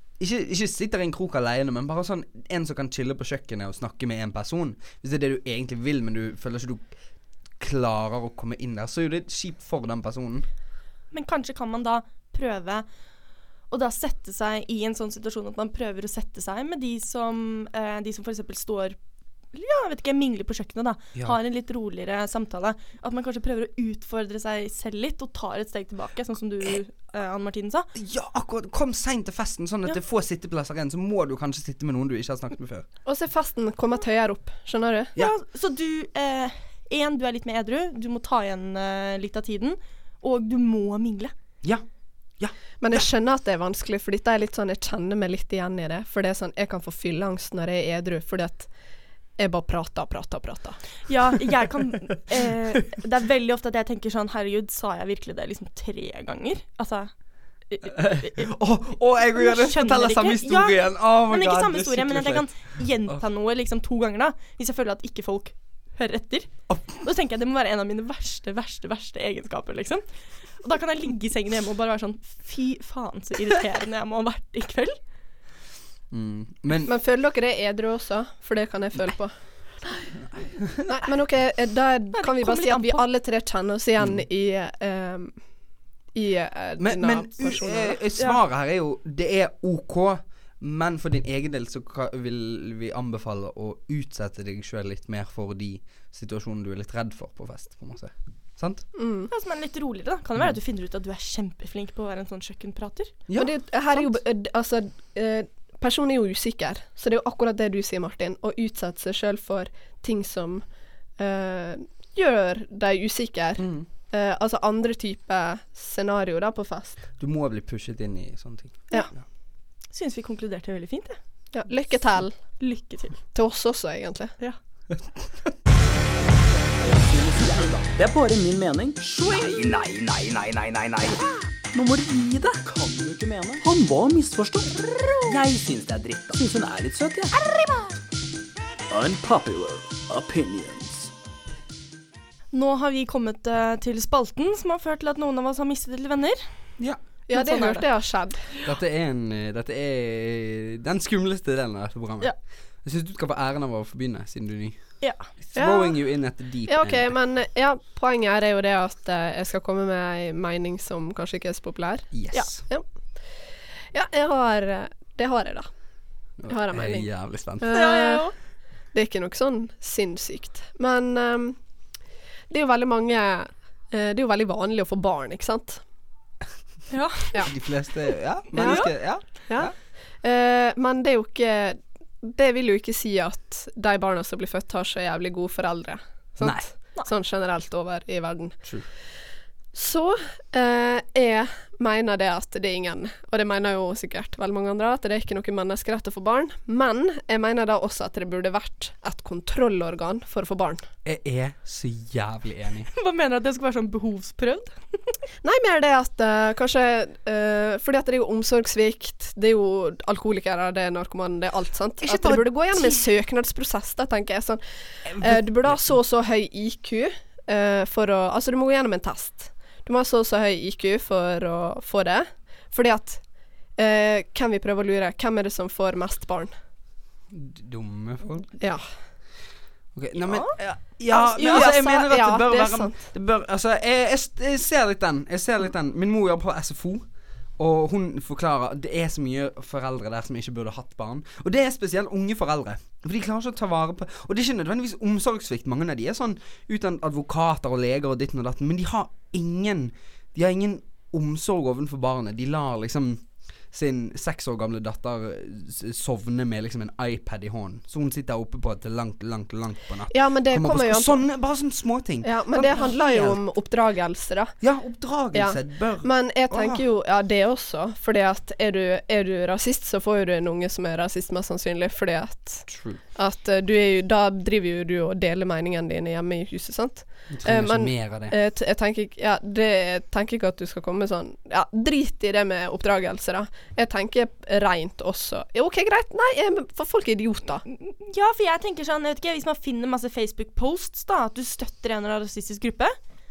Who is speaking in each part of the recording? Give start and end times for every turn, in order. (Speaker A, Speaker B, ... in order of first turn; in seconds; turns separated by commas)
Speaker A: 0.2-6.9, Speaker A: 7.6-10.4, Speaker B: 11.1-12.8, Speaker B: 13.7-19.0, Speaker B: 19.5-27.9, Speaker A: 27.9-32.9, Speaker C: 33.0-35.1, Speaker B: 35.1-41.3, Speaker A: 42.4-43.0, Speaker C: 42.8-48.7, Speaker C: 49.4-50.9, Speaker B: 51.1-57.1, Speaker B: 57.7-58.5, Speaker A: 57.9-63.2, Speaker B: 59.2-75.0, Speaker A: 66.7-67.0, Speaker A: 76.1-76.9, Speaker C: 76.8-79.3, Speaker A: 80.2-81.1, Speaker C: 80.9-85.3, Speaker B: 82.1-83.0, Speaker C: 86.1-88.0, Speaker A: 86.8-98.9, Speaker C: 98.9-99.3, Speaker B: 99.3-103.1, Speaker C: 103.3-110.6, Speaker C: 111.2-117.0, Speaker A: 113.6-113.9, Speaker A: 117.2-119.2, Speaker B: 119.9-121.2, Speaker C: 121.5-122.4, Speaker B: 122.4-123.2, Speaker C: 123.3-124.3, Speaker D: 126.8-137.8, Speaker B: 129.2-129.8, Speaker D: 138.9-141.1, Speaker B: 142.5-146.7, Speaker C: 147.3-148.5, Speaker B: 147.3-147.9, Speaker A: 148.6-157.1, Speaker B: 155.0-155.3, Speaker C: 155.6-156.0, Speaker C: 156.7-162.8, Speaker A: 162.1-162.7, Speaker C: 163.9-165.7, Speaker A: 166.4-167.7, Speaker C: 166.5-168.3, Speaker B: 167.7-168.3, Speaker C: 168.9-171.6, Speaker C: 172.5-175.8, Speaker B: 176.9-177.4, Speaker A: 177.4-179.7, Speaker C: 178.5-188.7, Speaker B: 178.6-178.9, Speaker A: 186.4-186.6, Speaker C: 189.7-200.8, Speaker A: 201.0-202.9, Speaker B: 202.9-205.1, Speaker C: 205.4-223.2, Speaker A: 212.0-213.0, Speaker A: 215.1-215.9, Speaker C: 223.8-226.5, Speaker A: 227.3-228.5, Speaker C: 228.6-228.9, Speaker A: 229.9-237.1, Speaker B: 230.2-230.6, Speaker C: 230.6-233.1, Speaker B: 231.4-231.7, Speaker A: 237.6-263.4, Speaker C: 260.1-261.2, Speaker C: 262.2-264.5, Speaker A: 264.6-266.8, Speaker C: 265.3-287.6, Speaker A: 272.7-273.0, Speaker A: 277.3-278.4, Speaker B: 287.7-292.9